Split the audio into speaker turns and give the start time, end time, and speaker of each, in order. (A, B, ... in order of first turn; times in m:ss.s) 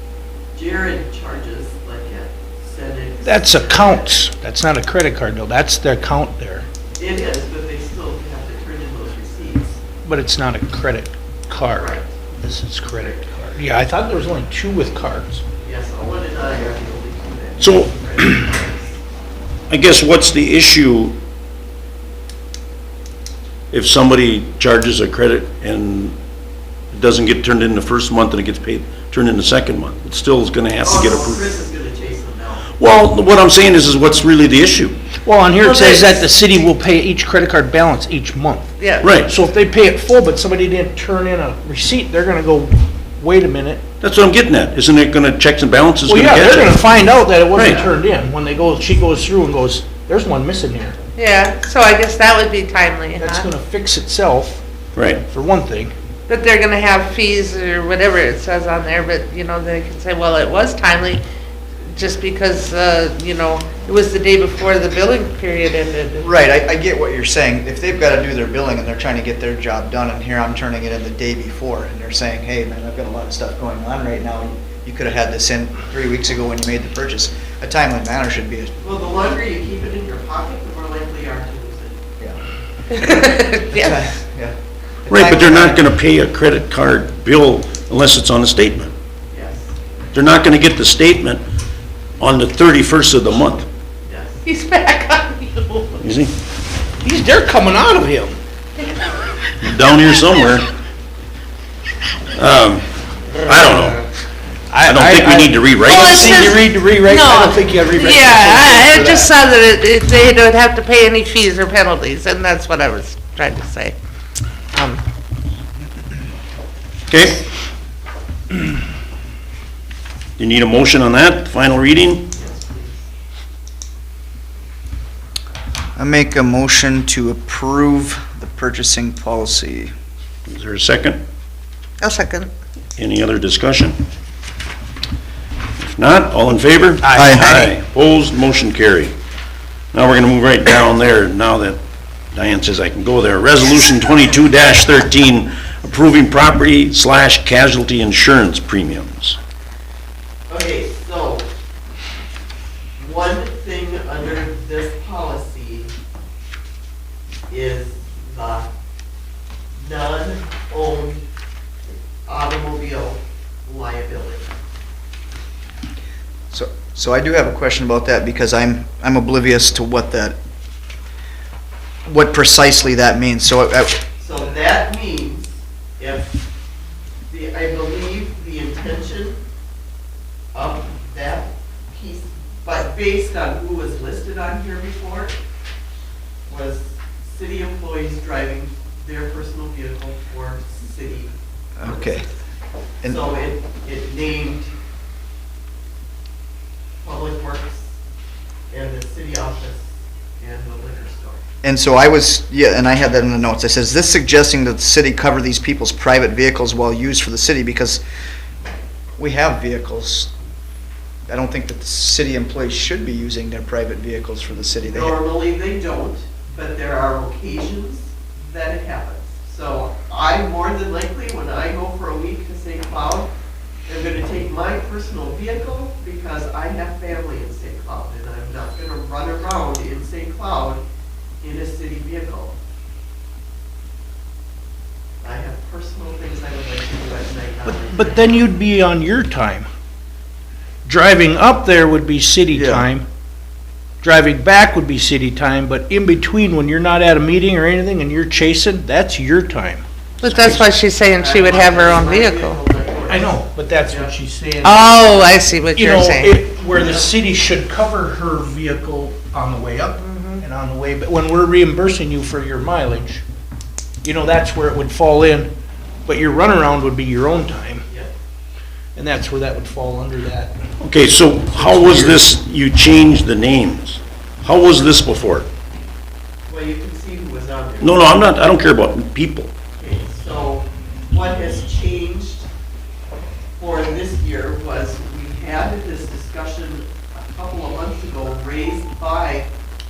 0:00.5-0:04.3 A
0:03.2-0:06.7 B
0:07.0-0:09.8 A
0:10.0-0:15.4 B
0:11.7-0:12.2 A
0:15.6-0:19.0 A
0:17.6-0:18.4 C
0:19.7-0:21.2 C
0:23.7-0:26.2 C
0:26.9-0:31.6 C
0:30.8-0:32.7 A
0:32.8-0:35.0 C
0:35.2-0:43.8 B
0:35.6-0:36.2 A
0:38.8-0:39.1 D
0:39.0-0:39.3 C
0:44.0-0:46.8 C
0:46.1-0:51.0 B
0:47.5-0:47.9 C
0:51.2-0:53.5 D
0:53.2-0:54.6 B
0:55.0-0:55.2 C
0:55.3-0:55.9 B
0:56.3-1:01.2 D
1:01.9-1:06.2 D
1:06.2-1:18.7 E
1:18.8-1:22.0 A
1:23.0-1:23.9 D
1:23.0-1:24.6 E
1:25.1-1:25.8 E
1:25.1-1:28.9 C
1:29.3-1:29.9 A
1:30.1-1:31.4 C
1:32.2-1:33.7 C
1:34.1-1:34.4 A
1:34.4-1:36.0 D
1:36.0-1:36.3 C
1:37.0-1:38.4 B
1:38.8-1:39.1 D
1:39.6-1:40.7 C
1:42.3-1:42.9 C
1:43.4-1:44.0 C
1:44.7-1:49.3 B
1:44.8-1:46.5 C
1:45.9-1:54.0 D
1:54.7-1:55.0 D
1:57.1-1:57.4 C
2:00.4-2:02.2 C
2:02.3-2:03.0 A
2:06.0-2:09.9 E
2:10.5-2:11.2 C
2:12.0-2:12.5 D
2:13.0-2:14.0 C
2:15.8-2:19.1 C
2:17.0-2:17.7 B
2:17.2-2:17.4 E
2:19.9-2:21.8 C
2:22.3-2:29.4 C
2:30.5-2:31.5 A
2:33.0-2:35.9 A
2:37.5-2:38.7 A
2:39.8-2:41.2 A
2:41.9-2:44.5 A
2:46.5-2:50.4 E
2:52.1-2:54.0 E
2:54.2-2:56.3 A
2:57.3-2:59.4 A
3:00.5-3:05.4 A
3:06.5-3:12.4 A
3:11.8-3:12.2 E
3:13.0-3:14.7 A
3:17.0-3:17.9 A
3:18.7-3:19.9 A
3:20.4-3:21.4 A
3:21.6-3:28.0 E
3:29.2-3:30.3 E
3:31.3-3:35.2 E
3:34.9-3:43.3 A
3:43.9-3:50.8 A
3:51.4-3:52.6 A
3:55.2-3:58.4 A
3:57.6-3:59.7 B
4:00.8-4:03.1 B
4:02.5-4:02.9 E
4:04.0-4:09.8 B
4:10.2-4:12.6 D
4:11.2-4:14.1 A
4:13.1-4:23.2 B
4:14.6-4:16.4 D
4:15.0-4:15.4 A
4:16.8-4:17.1 A
4:20.0-4:20.4 D
4:24.0-4:25.5 B
4:26.1-4:27.8 B
4:27.8-4:28.1 A
4:29.0-4:30.6 B
4:30.8-4:35.5 C
4:31.6-4:32.2 B
4:36.5-4:38.1 A
4:37.8-4:39.5 C
4:39.8-4:42.5 A
4:43.6-4:49.5 A